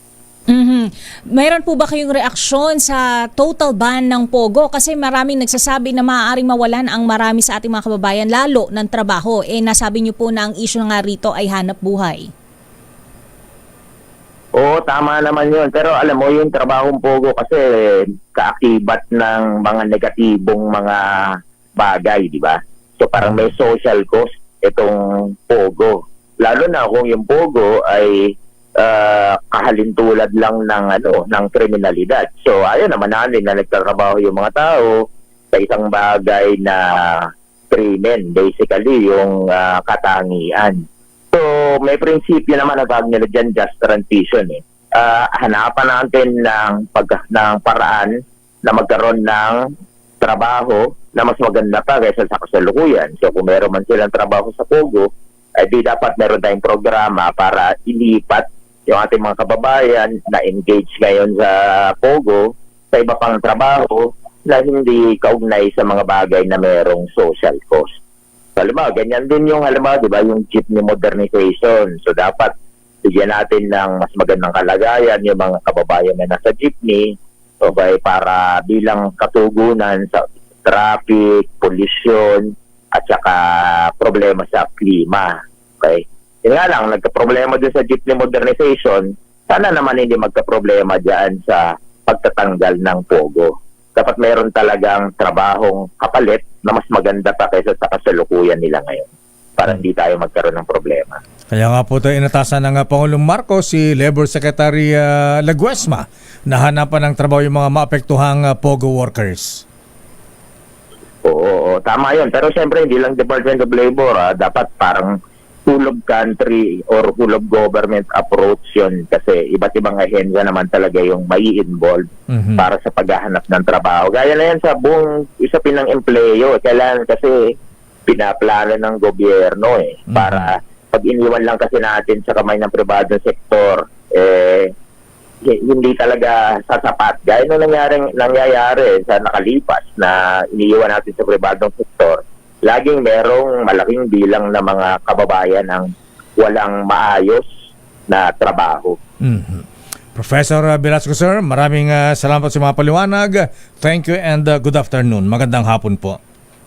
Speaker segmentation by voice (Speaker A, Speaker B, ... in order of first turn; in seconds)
Speaker A: 0.5-12.3
Speaker B: 14.5-49.7, 50.2-67.9, 68.6-101.2, 111.2-115.1, 115.7-127.5, 128.1-134.7, 135.4-147.5, 148.1-149.0
Speaker C: 101.5-109.6, 122.3-122.7, 130.1-130.5, 149.2-156.2